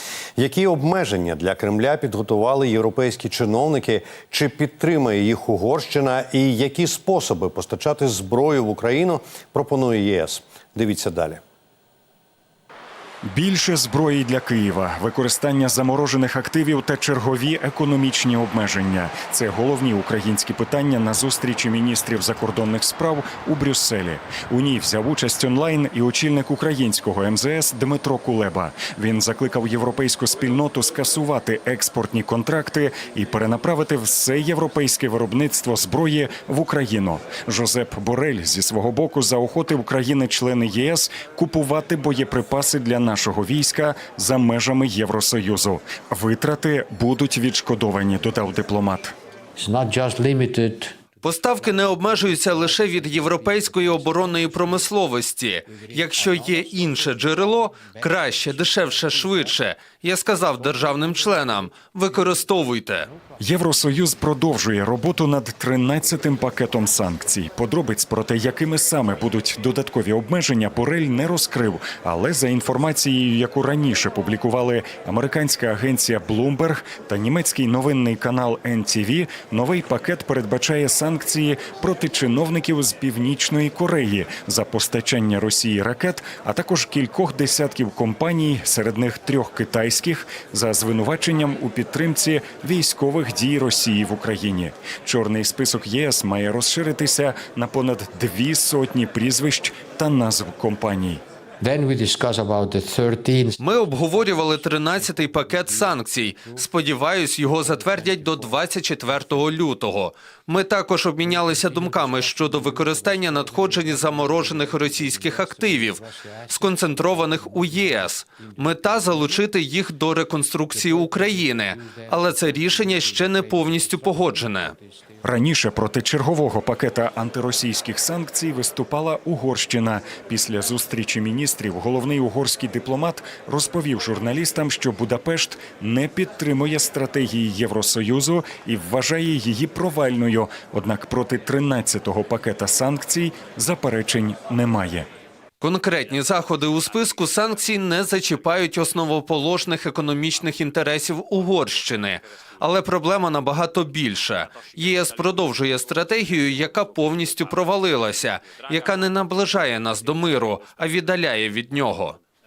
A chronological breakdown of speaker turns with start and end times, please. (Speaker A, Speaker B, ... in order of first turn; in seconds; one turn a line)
Speaker A: 0.4-11.4
Speaker B: 13.3-49.1
Speaker C: 49.6-51.0
Speaker D: 51.2-63.1
Speaker C: 51.6-55.0
Speaker C: 55.7-59.6
Speaker C: 60.6-62.5
Speaker C: 63.1-63.4
Speaker B: 63.4-101.2
Speaker C: 101.6-106.7
Speaker D: 103.6-124.7
Speaker C: 107.5-108.6
Speaker C: 109.1-109.5
Speaker C: 111.2-119.4
Speaker C: 120.7-125.2
Speaker B: 125.2-145.1
Speaker D: 145.6-162.2